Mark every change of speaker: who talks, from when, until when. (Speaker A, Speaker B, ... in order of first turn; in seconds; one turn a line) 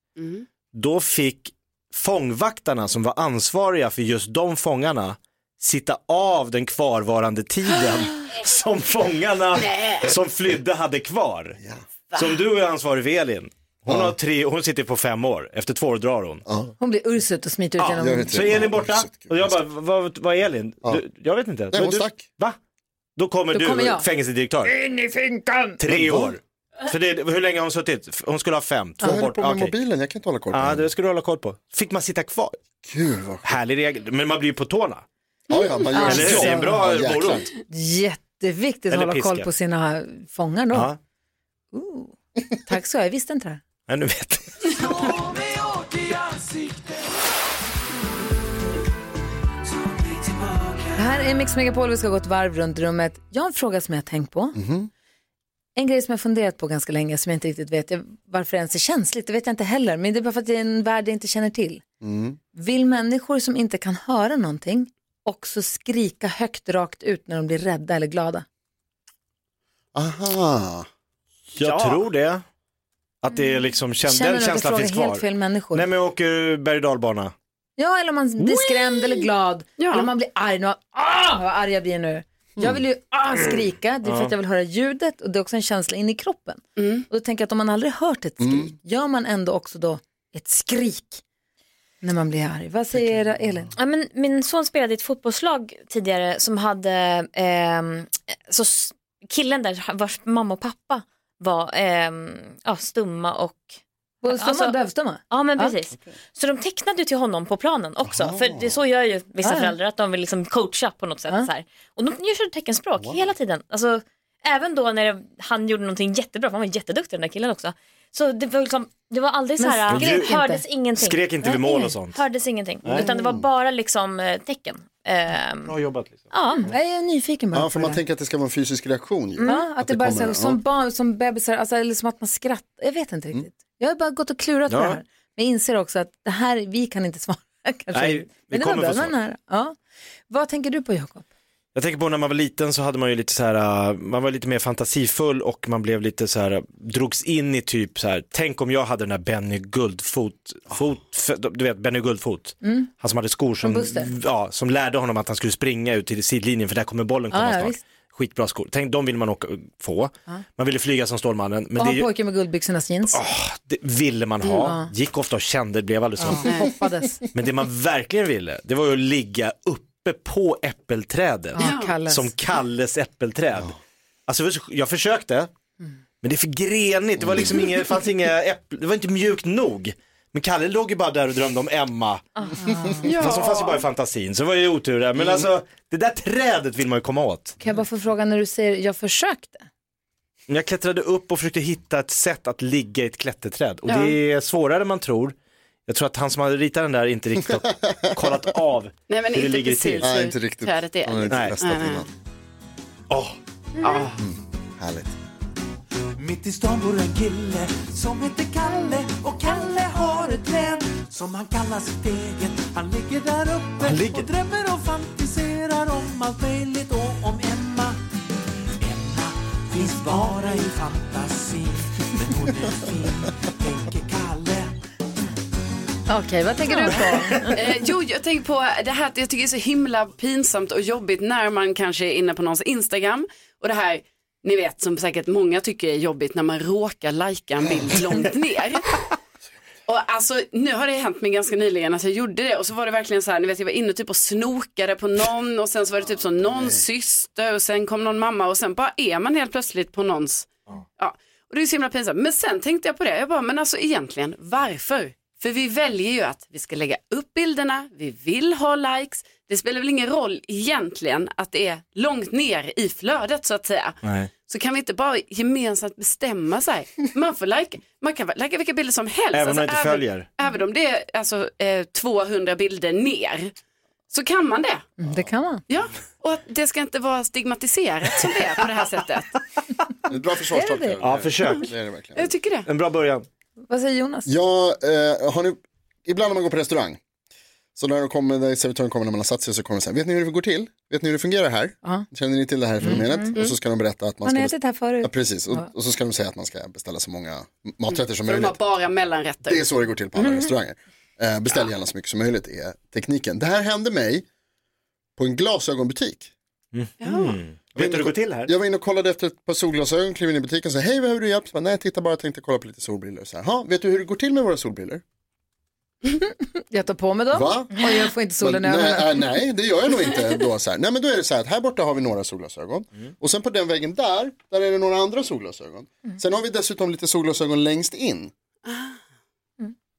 Speaker A: 0.2-0.5
Speaker B: 0.7-11.6
Speaker A: 9.6-10.1
Speaker B: 12.2-16.4
Speaker C: 13.9-14.2
Speaker C: 16.5-16.7
Speaker D: 16.8-18.4
Speaker C: 17.9-19.6
Speaker B: 17.9-22.6
Speaker C: 21.7-22.3
Speaker B: 23.2-24.7
Speaker D: 23.5-24.1
Speaker D: 24.7-25.8
Speaker B: 25.8-29.8
Speaker C: 25.9-26.4
Speaker C: 29.0-30.9
Speaker B: 30.5-32.6
Speaker C: 32.9-33.5
Speaker B: 33.4-35.0
Speaker C: 35.5-37.5
Speaker D: 35.5-36.8
Speaker B: 35.9-37.5
Speaker D: 37.7-40.9
Speaker B: 38.9-39.5
Speaker B: 40.7-41.0
Speaker D: 41.7-43.6
Speaker B: 43.9-44.8
Speaker E: 44.7-46.9
Speaker E: 49.8-51.0
Speaker D: 51.0-54.6
Speaker C: 54.5-54.9
Speaker D: 55.8-61.8
Speaker C: 62.0-62.4
Speaker D: 62.5-68.5
Speaker C: 69.9-70.9
Speaker B: 71.5-72.4
Speaker A: 71.6-72.0
Speaker B: 73.2-77.3
Speaker D: 74.0-75.9
Speaker D: 77.8-91.2
Speaker A: 79.8-80.1
Speaker B: 84.0-84.3
Speaker A: 86.8-87.1
Speaker C: 88.4-88.7
Speaker D: 92.0-93.7
Speaker F: 93.8-103.8
Speaker D: 104.2-105.7
Speaker F: 104.3-104.8
Speaker F: 105.3-125.8
Speaker C: 108.0-108.8
Speaker D: 109.4-109.7
Speaker C: 113.0-113.2
Speaker D: 119.6-120.6
Speaker B: 119.9-120.3
Speaker B: 120.9-122.2
Speaker D: 121.5-121.8
Speaker B: 122.8-123.1
Speaker C: 123.1-123.4
Speaker B: 125.7-126.3
Speaker F: 126.3-126.6
Speaker D: 126.3-128.0
Speaker C: 127.5-130.6
Speaker F: 129.4-129.7
Speaker D: 129.4-139.8
Speaker B: 134.7-135.0
Speaker B: 137.9-139.1
Speaker D: 140.3-141.3
Speaker B: 141.8-162.1
Speaker D: 152.6-152.9
Speaker D: 153.6-154.1
Speaker D: 157.3-157.8
Speaker D: 161.8-163.2
Speaker B: 163.1-166.6
Speaker A: 164.4-164.7
Speaker D: 164.6-164.9
Speaker D: 166.2-167.2
Speaker B: 167.3-173.8
Speaker D: 171.6-172.3
Speaker A: 171.6-171.9
Speaker B: 174.3-175.5
Speaker B: 176.2-182.3
Speaker C: 177.2-177.7
Speaker D: 182.5-183.1
Speaker A: 183.0-183.9
Speaker B: 183.0-187.6
Speaker D: 187.6-189.7
Speaker B: 190.5-195.4
Speaker A: 193.9-194.2
Speaker B: 195.9-200.1
Speaker C: 197.6-198.4
Speaker A: 199.1-202.0
Speaker C: 200.0-202.1
Speaker B: 201.3-201.6
Speaker B: 203.1-204.2
Speaker A: 203.8-204.1
Speaker C: 204.2-205.1
Speaker E: 206.2-218.0
Speaker B: 213.8-214.3
Speaker E: 218.8-224.7
Speaker D: 226.1-227.6
Speaker A: 227.5-238.9
Speaker A: 239.9-273.5
Speaker C: 246.5-246.8
Speaker B: 264.0-264.3
Speaker B: 269.3-270.3
Speaker A: 274.1-274.9
Speaker D: 275.0-275.6
Speaker A: 275.7-279.4
Speaker C: 280.1-282.3
Speaker D: 280.5-281.0
Speaker B: 281.0-281.7
Speaker A: 282.1-282.7
Speaker B: 282.7-283.3
Speaker D: 283.7-284.3
Speaker C: 284.3-287.0
Speaker C: 287.8-298.6
Speaker D: 294.2-295.7
Speaker A: 297.9-299.7
Speaker C: 299.4-304.2
Speaker C: 305.2-306.3
Speaker B: 306.7-308.5
Speaker A: 307.0-307.4
Speaker C: 307.8-315.0
Speaker D: 316.7-319.3
Speaker C: 317.3-328.3
Speaker A: 328.7-328.9